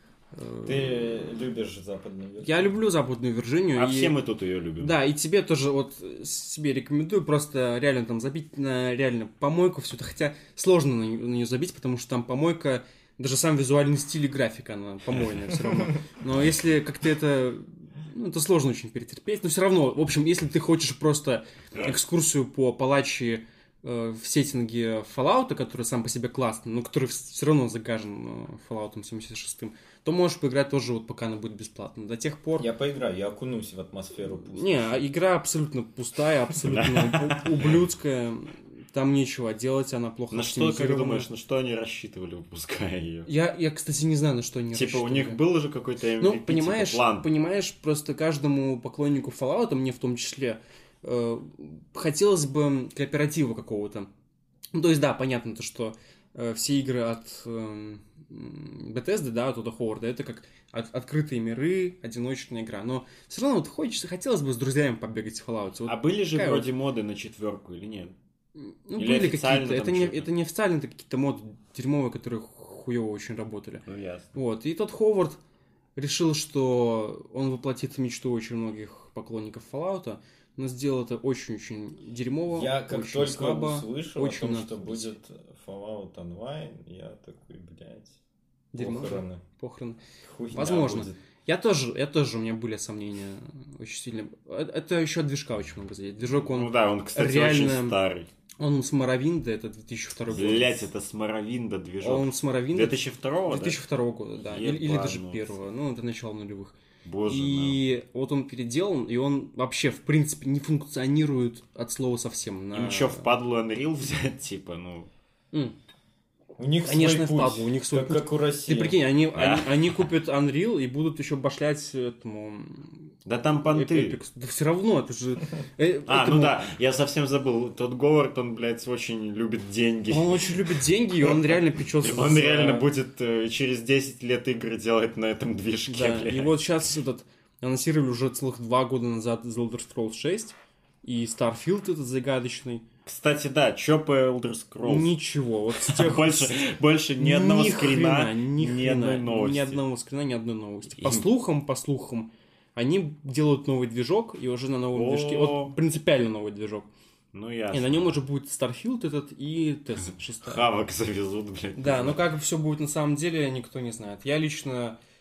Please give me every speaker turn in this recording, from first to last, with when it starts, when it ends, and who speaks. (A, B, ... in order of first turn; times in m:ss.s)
0:00.3-0:01.2 A
0:00.6-0:02.7 B
0:02.4-0:04.1 A
0:03.8-0:05.0 C
0:04.8-0:32.7 A
0:32.6-0:34.9 B
0:34.3-0:41.3 A
0:36.6-0:37.8 C
0:40.3-0:43.3 C
0:43.2-0:45.4 A
0:44.7-0:47.3 C
0:46.2-0:54.1 A
0:54.7-1:06.7 A
1:05.9-1:08.1 C
1:08.6-1:15.4 A
1:09.0-1:10.3 C
1:13.8-1:14.3 C
1:16.0-1:25.1 A
1:22.5-1:28.2 B
1:28.7-1:30.0 A
1:28.8-1:29.4 B
1:30.2-1:31.1 B
1:30.5-1:38.0 A
1:36.3-1:38.3 C
1:38.6-1:40.8 A
1:40.3-1:43.8 C
1:42.0-1:53.3 A
1:44.4-1:45.5 C
1:47.0-1:47.8 C
1:52.7-1:55.1 C
1:56.6-1:59.0 B
1:56.8-2:03.1 A
1:59.3-2:00.0 C
2:03.2-2:04.2 C
2:03.7-2:06.6 A
2:06.1-2:10.6 C
2:10.1-2:12.9 A
2:12.0-2:16.5 C
2:15.9-2:22.8 A
2:23.0-2:25.1 C
2:24.8-2:26.6 A
2:25.8-2:29.8 C
2:27.2-2:36.9 A
2:31.0-2:31.3 C
2:34.9-2:35.8 C
2:37.3-2:38.1 C
2:37.7-2:40.7 A
2:40.4-2:42.2 C
2:41.8-2:45.0 A